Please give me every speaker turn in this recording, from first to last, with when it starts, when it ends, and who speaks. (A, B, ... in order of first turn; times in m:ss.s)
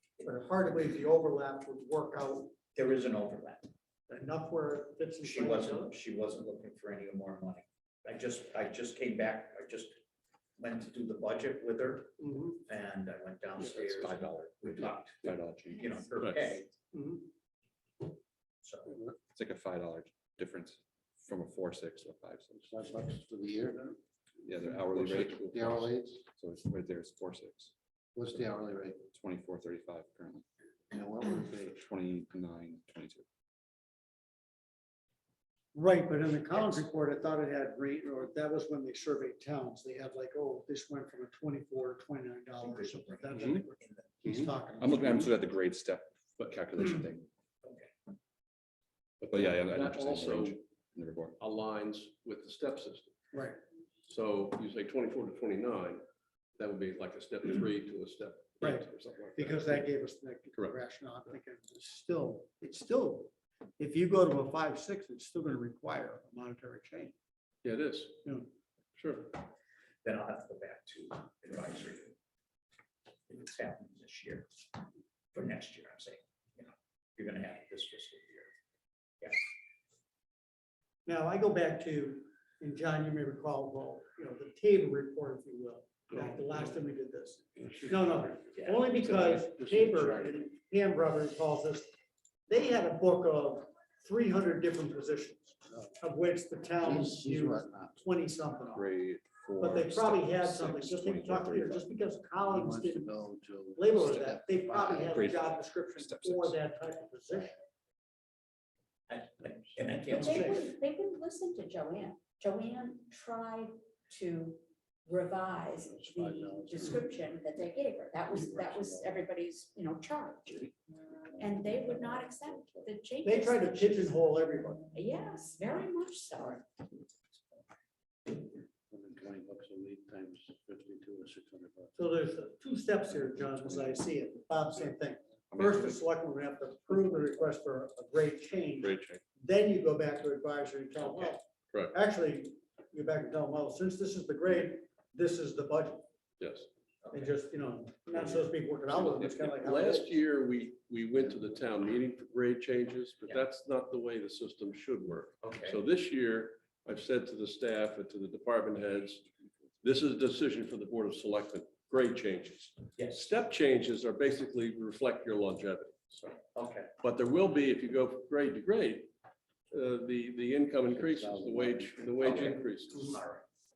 0:00.2-0:02.5 A
0:02.7-0:03.7 B
0:04.1-0:06.0 A
0:05.2-0:10.0 B
0:10.6-0:16.7 B
0:13.8-0:16.0 C
0:16.2-0:16.5 D
0:18.6-0:19.0 B
0:19.3-0:22.6 C
0:22.6-0:24.0 E
0:24.4-0:25.8 C
0:24.9-0:26.2 E
0:25.0-0:25.7 D
0:26.4-0:27.7 C
0:28.1-0:29.0 E
0:29.1-0:30.4 C
0:30.9-0:31.8 E
0:31.5-0:33.2 C
0:35.7-0:45.3 A
0:36.5-0:36.9 B
0:42.6-0:44.3 B
0:44.8-0:47.3 C
0:47.6-0:47.9 B
0:49.2-0:50.6 D
0:49.3-0:51.4 C
0:51.4-0:53.1 D
0:53.3-0:53.6 A
0:54.1-0:56.0 D
0:56.6-0:59.9 D
0:58.6-1:07.1 A
1:07.6-1:08.2 D
1:09.0-1:09.4 D
1:10.0-1:12.1 B
1:13.3-1:14.6 B
1:15.3-1:18.5 B
1:21.0-1:31.9 A
1:28.5-1:28.8 B
1:29.0-1:30.4 E
1:32.5-1:38.9 A
1:35.7-1:35.9 E
1:36.8-1:38.0 E
1:38.7-1:41.9 C
1:39.6-1:43.1 A
1:42.4-1:45.3 E
1:43.8-1:47.6 A
1:44.0-1:46.6 C
1:47.3-1:47.5 E
1:49.1-1:50.7 B
1:50.1-2:00.7 F
1:50.1-1:50.7 A
1:55.8-1:57.2 E
1:58.2-1:59.3 E
2:01.3-2:02.8 E
2:01.4-2:04.2 F
2:03.2-2:04.8 A
2:04.9-2:06.6 F
2:08.3-2:11.9 E
2:12.0-2:26.1 A
2:13.4-2:13.8 E
2:15.5-2:16.0 C
2:21.0-2:21.9 D
2:26.4-2:26.7 D
2:27.0-2:27.3 B
2:27.1-2:30.2 A
2:29.4-2:39.2 D
2:35.4-2:35.8 B
2:39.8-2:46.4 D
2:46.5-2:46.9 B
2:47.0-2:49.1 D
2:49.7-2:53.1 D
2:50.9-2:52.5 E
2:52.2-2:53.4 B